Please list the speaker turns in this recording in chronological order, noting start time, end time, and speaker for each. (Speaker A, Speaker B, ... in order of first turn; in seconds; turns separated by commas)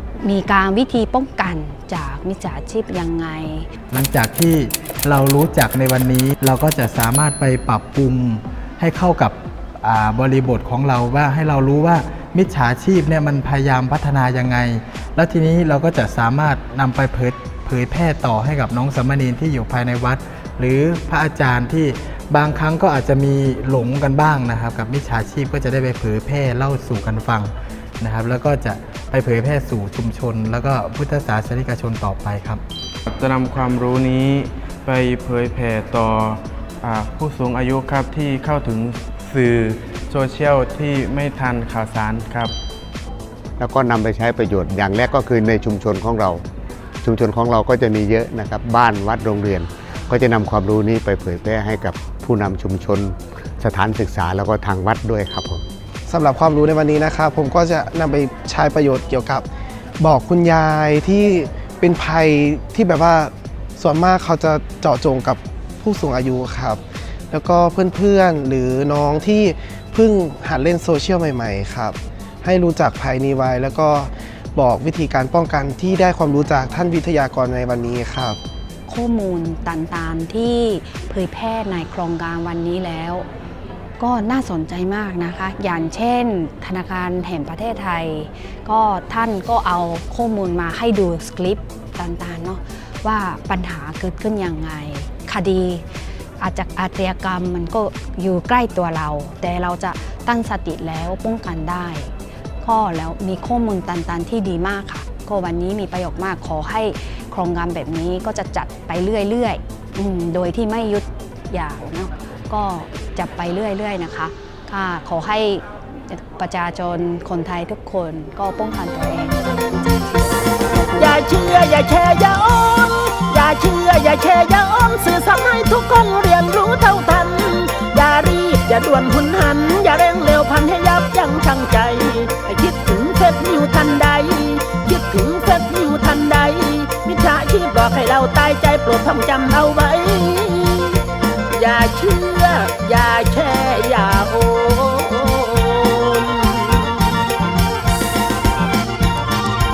Speaker A: 0.2-3.7, Speaker B: 3.9-32.6, Speaker C: 33.1-42.5, Speaker D: 43.6-46.4, Speaker D: 47.0-55.6, Speaker E: 56.1-59.5, Speaker E: 60.0-78.4, Speaker A: 78.9-83.3, Speaker A: 84.0-95.9, Speaker A: 96.4-102.1, Speaker A: 102.6-119.4, Speaker A: 120.8-121.1, Speaker F: 121.0-147.2